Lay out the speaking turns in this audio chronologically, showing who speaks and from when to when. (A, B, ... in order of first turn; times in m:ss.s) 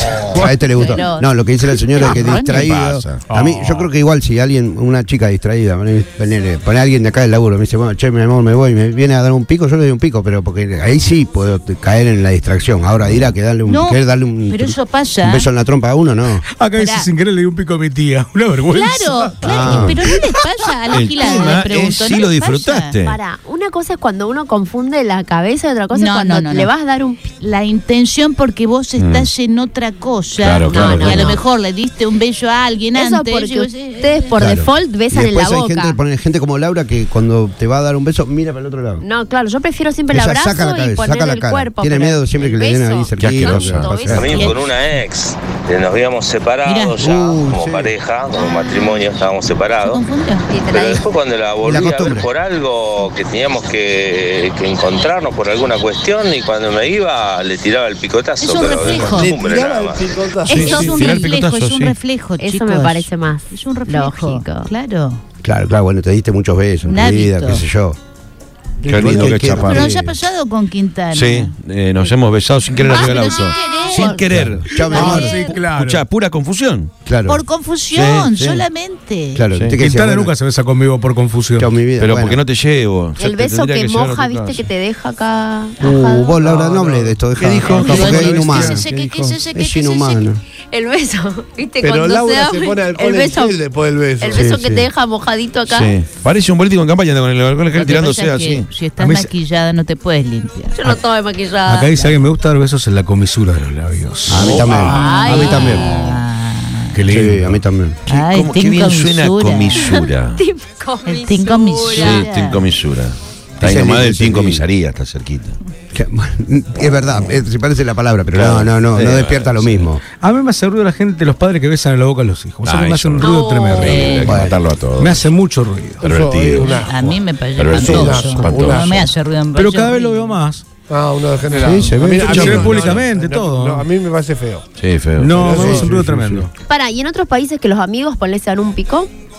0:00.3-0:16.4 A
0:00.7-0:01.3 B
0:02.0-0:03.2 C
0:02.0-0:02.5 D
0:03.3-0:03.8 E
0:13.6-0:15.5 D
0:16.6-0:20.1 E
0:16.8-0:17.1 D
0:18.7-0:22.9 D
0:19.4-0:20.0 A
0:20.9-0:23.2 C
0:23.0-0:27.2 B
0:25.9-0:26.7 D
0:27.4-0:34.4 D
0:29.0-0:29.3 C
0:30.4-0:31.4 C
0:30.7-0:31.4 B
0:32.9-0:36.0 B
0:34.4-0:39.0 A
0:39.0-0:44.5 B
0:40.1-0:44.5 A
0:43.2-0:43.9 C
0:44.1-0:50.0 F
0:44.3-0:44.6 D
0:46.6-0:47.0 D
0:47.0-0:47.9 A
0:49.8-0:50.5 D
0:50.5-0:51.0 B
0:50.7-1:00.2 F
0:51.6-0:52.3 A
0:58.4-0:59.4 D
0:59.0-1:01.0 G
1:00.5-1:05.2 D
1:00.5-1:01.2 B
1:00.5-1:02.0 C
1:02.4-1:04.7 B
1:05.4-1:08.0 A
1:06.8-1:07.6 D
1:08.8-1:09.8 G
1:08.8-1:09.9 C
1:08.9-1:10.2 A
1:09.6-1:11.5 D
1:11.1-1:16.9 C
1:12.8-1:15.6 B
1:12.8-1:14.2 D
1:14.3-1:15.5 A
1:14.9-1:16.0 E
1:17.1-1:17.4 A
1:17.3-1:19.4 D
1:17.9-1:18.3 C
1:18.3-1:18.7 A
1:19.3-1:20.3 A
1:19.7-1:21.7 E
1:21.6-1:22.4 A
1:22.0-1:24.7 C
1:23.2-1:26.4 B
1:25.8-1:28.9 A
1:26.4-1:29.1 G
1:27.8-1:30.2 D
1:27.9-1:28.9 E
1:29.5-1:30.4 A
1:30.7-1:33.6 B
1:31.8-1:34.5 G
1:34.2-1:35.9 B
1:34.3-1:34.9 A
1:35.7-1:38.7 C
1:37.8-1:40.8 D
1:39.0-1:39.3 E
1:40.8-1:42.1 B
1:41.7-1:44.7 E
1:44.3-1:46.0 A
1:44.4-1:44.9 C
1:44.6-1:46.1 B
1:44.8-1:47.0 D
1:46.9-1:47.6 E
1:47.1-1:48.0 A
1:48.1-1:49.9 D
1:48.1-1:50.4 C
1:49.8-1:52.3 B
1:51.0-1:52.6 D
1:51.9-1:55.6 C
1:53.6-1:54.6 A
1:55.9-2:00.0 A
1:58.3-1:59.9 C
2:00.1-2:04.5 E
2:02.6-2:05.3 C
2:03.2-2:04.1 B
2:03.8-2:04.3 D
2:04.3-2:04.6 A
2:05.0-2:06.0 E
2:06.0-2:07.1 G
2:06.0-2:08.9 C
2:06.8-2:10.4 D
2:07.7-2:09.1 G
2:09.5-2:10.7 E
2:10.9-2:14.6 G
2:11.6-2:12.9 A
2:12.1-2:13.8 E
2:12.5-2:13.0 C
2:14.8-2:15.5 C
2:15.2-2:16.5 E
2:15.3-2:16.0 G
2:15.4-2:16.5 A
2:16.7-2:19.1 B